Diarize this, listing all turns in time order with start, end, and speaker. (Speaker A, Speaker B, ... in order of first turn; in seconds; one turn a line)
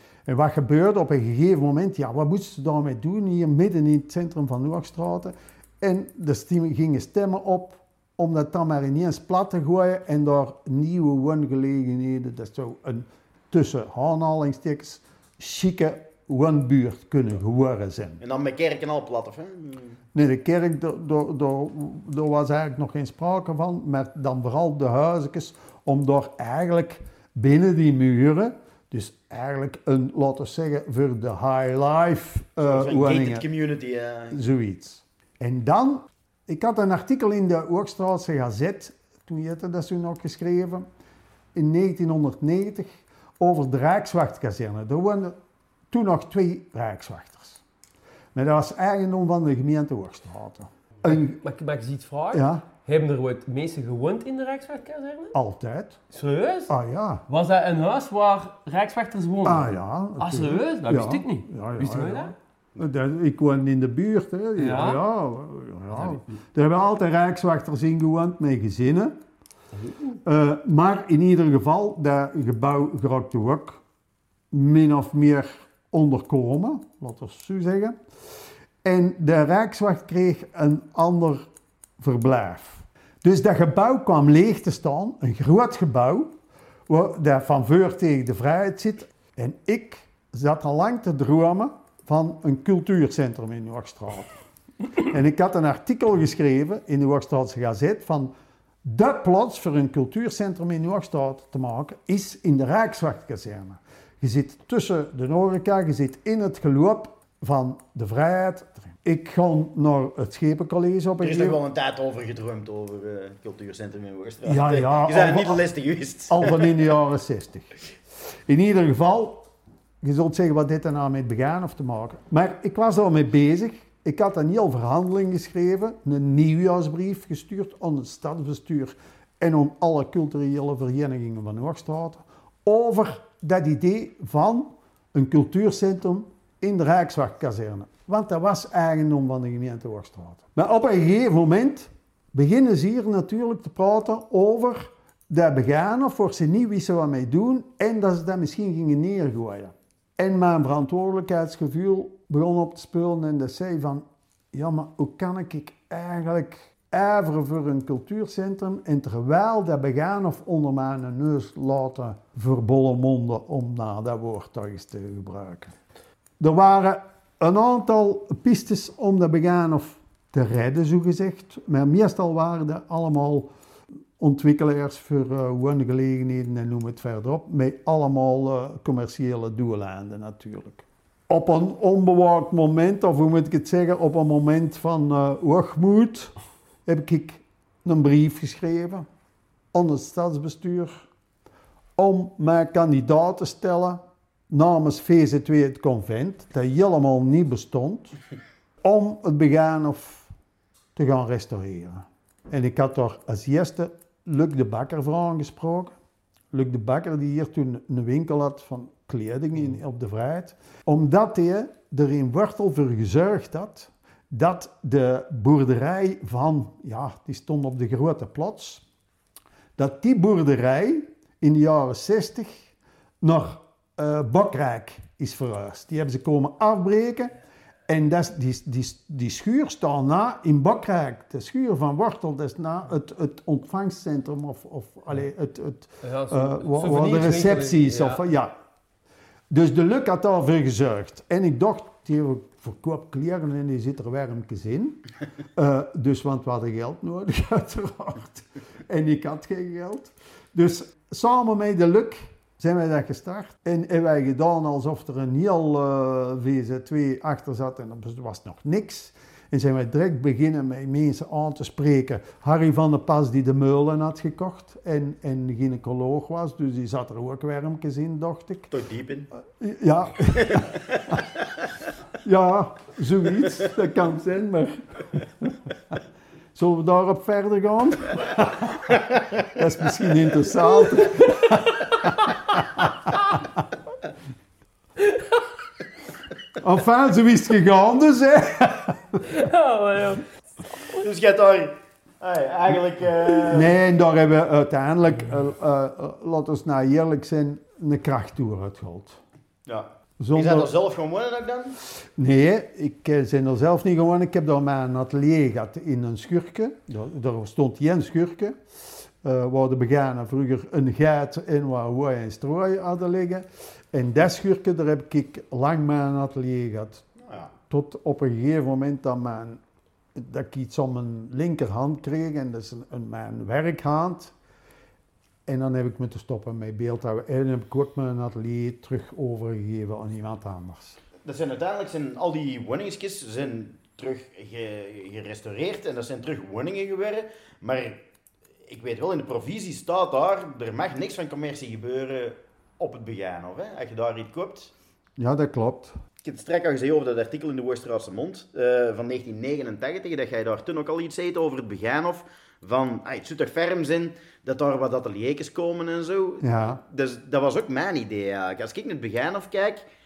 Speaker A: 0.3-18.2
Speaker B: 18.2-19.9
Speaker A: 20.1-33.4
Speaker B: 32.6-34.4
Speaker A: 34.3-40.8
Speaker A: 41.5-45.3
Speaker A: 45.9-47.6
Speaker A: 48.3-51.4
Speaker C: 51.0-55.3
Speaker A: 52.3-52.6
Speaker A: 55.3-56.0
Speaker C: 56.1-56.7
Speaker A: 56.7-57.2
Speaker C: 57.3-62.3
Speaker A: 59.4-69.1
Speaker C: 64.6-65.0
Speaker A: 70.2-73.8
Speaker A: 74.5-78.0
Speaker A: 78.8-81.5
Speaker A: 82.0-86.3
Speaker A: 86.9-94.3
Speaker A: 95.0-98.3
Speaker A: 98.8-111.6
Speaker B: 111.2-116.7
Speaker A: 114.4-115.6
Speaker A: 116.3-117.7
Speaker A: 118.5-119.5
Speaker A: 120.0-165.7
Speaker A: 166.4-173.5
Speaker A: 174.2-186.3
Speaker A: 186.8-189.1
Speaker A: 189.7-190.9
Speaker A: 191.9-198.2
Speaker A: 198.8-200.3
Speaker A: 200.9-205.9
Speaker A: 206.5-218.8
Speaker A: 219.8-222.7
Speaker A: 223.2-227.3
Speaker A: 227.9-238.5
Speaker C: 236.0-238.2
Speaker A: 239.5-245.0
Speaker A: 245.5-268.7
Speaker B: 268.7-269.3
Speaker A: 269.6-271.2
Speaker B: 270.4-271.7
Speaker A: 272.2-276.0
Speaker A: 276.5-283.1
Speaker A: 286.6-289.2
Speaker C: 289.2-290.2
Speaker B: 290.8-293.7
Speaker A: 293.5-299.2
Speaker B: 299.6-301.8
Speaker A: 300.2-300.7
Speaker A: 302.2-317.0
Speaker B: 317.2-317.5
Speaker A: 317.7-319.6
Speaker A: 320.1-324.3
Speaker A: 325.5-331.0
Speaker B: 331.2-338.0
Speaker B: 338.7-344.7
Speaker A: 345.2-346.0
Speaker B: 346.2-359.8
Speaker A: 356.4-356.8